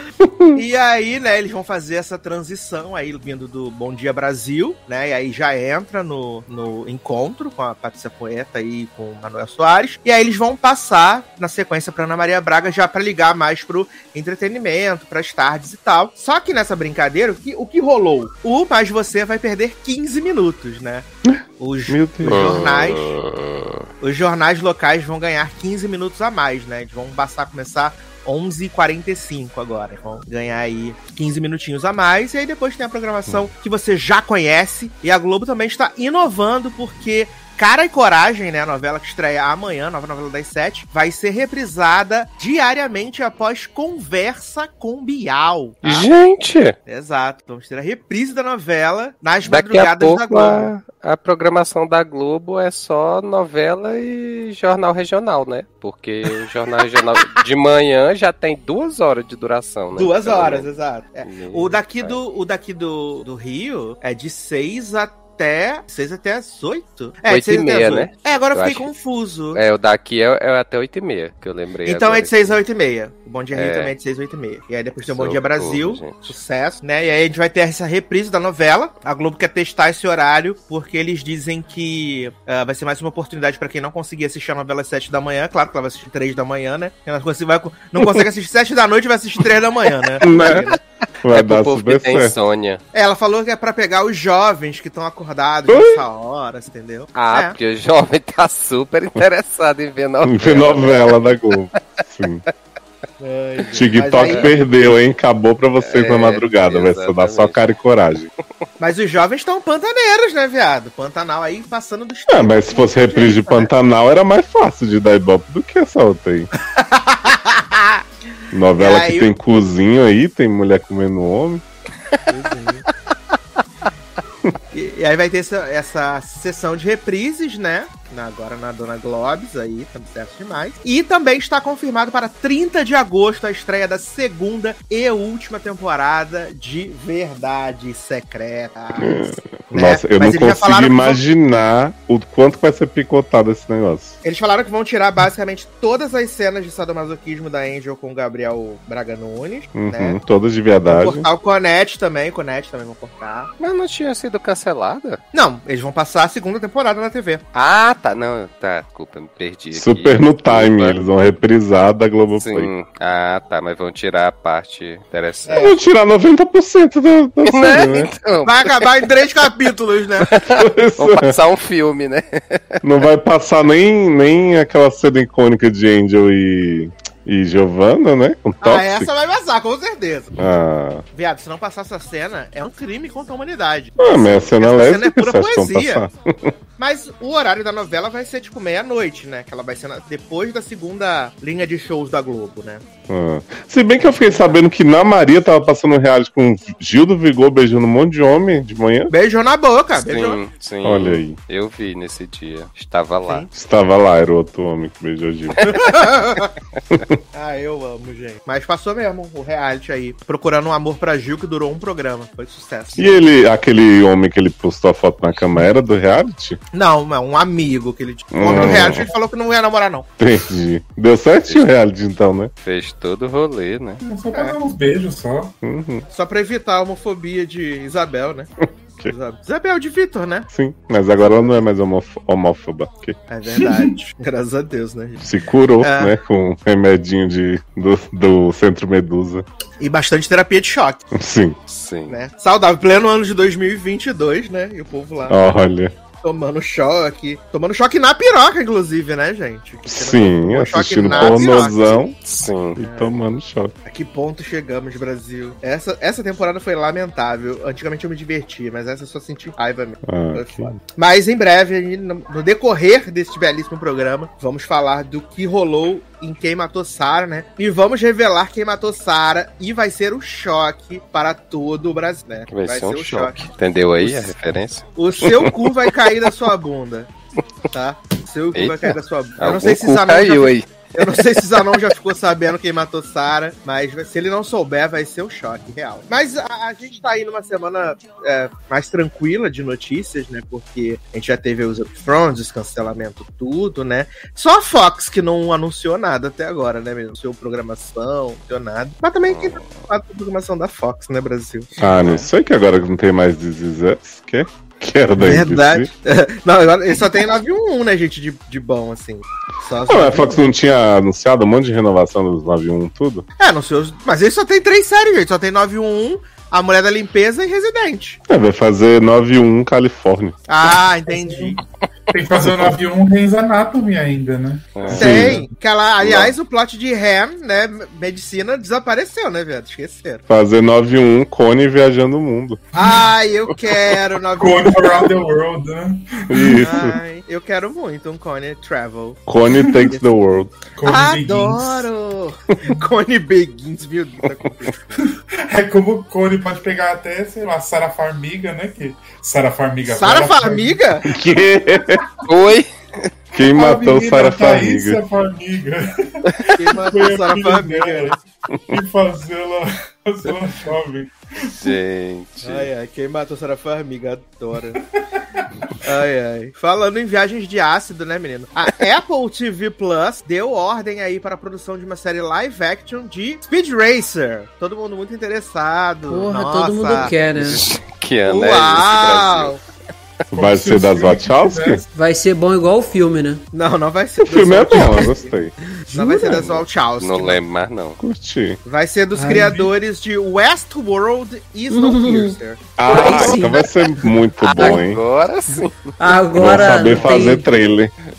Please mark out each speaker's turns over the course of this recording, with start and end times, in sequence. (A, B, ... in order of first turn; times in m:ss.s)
0:00.2-0:00.6 A
0:00.6-0:21.1 B
0:21.3-0:22.7 A
0:21.6-0:23.1 B
0:22.2-0:23.8 C
0:24.0-0:46.1 B
0:45.8-0:46.8 C
0:46.9-0:50.7 B
0:49.4-1:00.7 C
1:00.0-1:09.6 B
1:01.2-1:02.2 C
1:07.3-1:08.9 C
1:09.5-1:12.6 C
1:11.9-1:30.8 B
1:13.5-1:13.9 C
1:15.1-1:16.4 C
1:28.0-1:28.2 A
1:30.2-1:30.6 A
1:30.2-1:30.6 C
1:31.2-1:32.4 A
1:31.3-1:32.8 C
1:32.9-1:37.6 B
1:35.7-1:36.0 A
1:37.2-1:41.5 C
1:40.2-1:42.4 A
1:43.2-1:44.7 B
1:43.7-1:48.3 A
1:45.8-1:47.6 C
1:48.8-1:53.7 B
1:52.3-1:56.5 A
1:56.8-1:58.0 B
1:58.5-2:01.6 A
1:58.8-1:59.3 B
2:02.3-2:02.8 B
2:04.7-2:21.2 B
2:19.0-2:24.2 A
2:24.2-2:30.2 B
2:29.8-2:31.3 A
2:30.9-2:33.5 B
2:33.6-2:35.2 C
2:35.3-2:37.4 B
2:37.5-2:41.0 C
2:39.7-2:42.7 A
2:42.4-2:45.7 C
2:45.5-2:45.8 B
2:45.6-2:48.1 A
2:47.4-2:48.9 C
2:48.4-2:50.3 B
2:50.2-2:52.8 C
2:50.6-2:51.4 A
2:52.8-2:59.1 A
2:58.6-3:00.4 B
3:00.4-3:01.0 A
3:01.1-3:06.0 B
3:04.0-3:06.5 A
3:06.8-3:12.8 B
3:13.1-3:19.1 A
3:14.0-3:14.6 B
3:19.1-3:20.4 B
3:20.0-3:23.5 C
3:20.8-3:21.4 A
3:23.5-3:25.9 A
3:25.6-3:26.5 B
3:27.3-3:33.2 B
3:33.0-3:36.6 A
3:36.7-3:40.1 B
3:38.3-3:39.1 A
3:40.2-3:42.5 A
3:42.6-3:44.0 C
3:44.0-3:45.6 D
3:45.6-3:46.1 A
3:46.1-3:48.5 B
3:48.6-3:49.1 A
3:49.1-3:50.5 B
3:50.5-3:53.2 A
3:51.2-3:51.6 B
3:53.3-3:55.2 B
3:53.5-3:53.9 D
3:55.2-3:59.4 A
3:55.8-3:56.1 B
3:59.8-4:01.0 B
4:01.1-4:01.6 A
4:01.7-4:02.2 C
4:02.1-4:05.5 B
4:05.3-4:05.9 A
4:06.2-4:12.0 B
4:09.9-4:12.2 A
4:11.1-4:11.6 C
4:12.2-4:12.8 C
4:12.8-4:13.7 A
4:12.8-4:13.1 B
4:13.9-4:33.4 B
4:20.0-4:20.8 A
4:32.5-4:35.2 C
4:34.0-4:34.3 B
4:35.0-4:37.1 B
4:37.7-5:02.3 B
4:38.6-4:41.7 C
4:59.3-4:59.9 C
5:01.8-5:05.9 A
5:05.2-5:10.5 B
5:09.9-5:13.3 A
5:13.4-5:18.2 B
5:18.3-5:20.4 A
5:20.5-5:21.6 B
5:21.1-5:25.5 D
5:24.8-5:25.2 C
5:24.9-5:25.4 A
5:24.9-5:30.2 B
5:26.0-5:26.3 A
5:30.3-5:32.6 A
5:32.8-5:35.1 B
5:32.8-5:33.0 D
5:34.4-5:36.9 D
5:36.3-5:37.0 A
5:36.6-5:39.2 B
5:39.3-5:40.5 A
5:39.5-5:39.9 D
5:39.9-5:40.1 B
5:40.7-5:41.9 D
5:40.8-5:45.0 B
5:45.5-5:51.3 D
5:49.9-5:51.0 B
5:51.1-5:52.0 A
5:52.2-5:53.1 C
5:53.3-5:55.0 A
5:53.5-6:01.8 D
5:56.6-5:58.2 B
6:01.4-6:02.7 C
6:02.4-6:04.8 B
6:05.4-6:05.7 D
6:05.8-6:17.1 B
6:16.1-6:17.6 E
6:17.2-6:19.6 C
6:18.3-6:19.6 B
6:20.3-6:21.8 A
6:20.3-6:21.9 D
6:21.9-6:23.4 E
6:23.5-6:25.3 B
6:24.2-6:25.5 A
6:25.9-6:26.4 E
6:25.9-6:27.4 B
6:26.4-6:28.0 C
6:28.0-6:28.6 A
6:28.6-6:33.4 B
6:29.2-6:29.5 E
6:29.3-6:29.7 D
6:31.7-6:32.4 E
6:32.8-6:35.0 A
6:32.9-6:33.9 E
6:32.9-6:33.3 C
6:34.4-6:37.3 C
6:34.6-6:34.8 E
6:36.0-6:37.5 E
6:36.4-6:37.9 A